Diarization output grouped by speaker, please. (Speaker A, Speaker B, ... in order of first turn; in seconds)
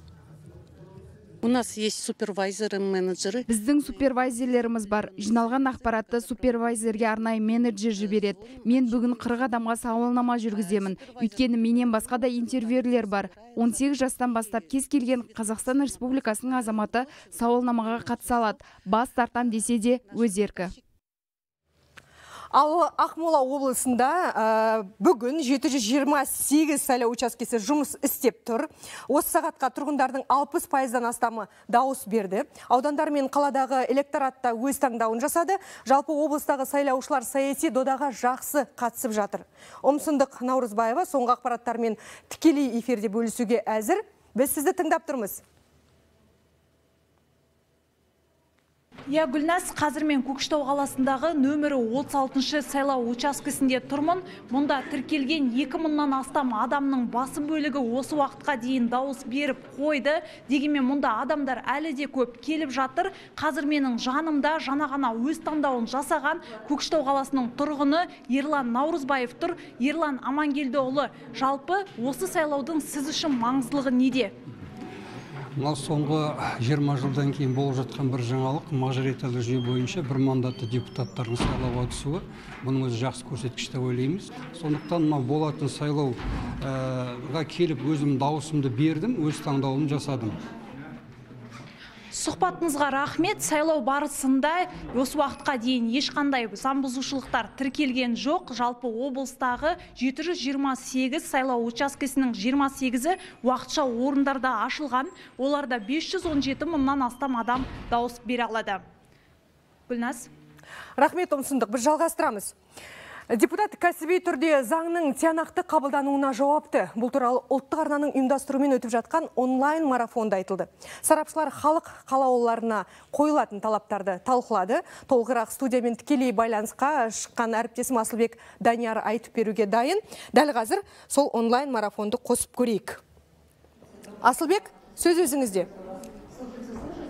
Speaker A: 1.4-3.5
Speaker B: 3.5-20.7
Speaker C: 22.5-45.4, 111.0-112.5, 113.3-133.0, 134.2-135.7
Speaker D: 49.1-74.3, 92.1-108.8, 109.9-110.3
Speaker E: 75.5-90.4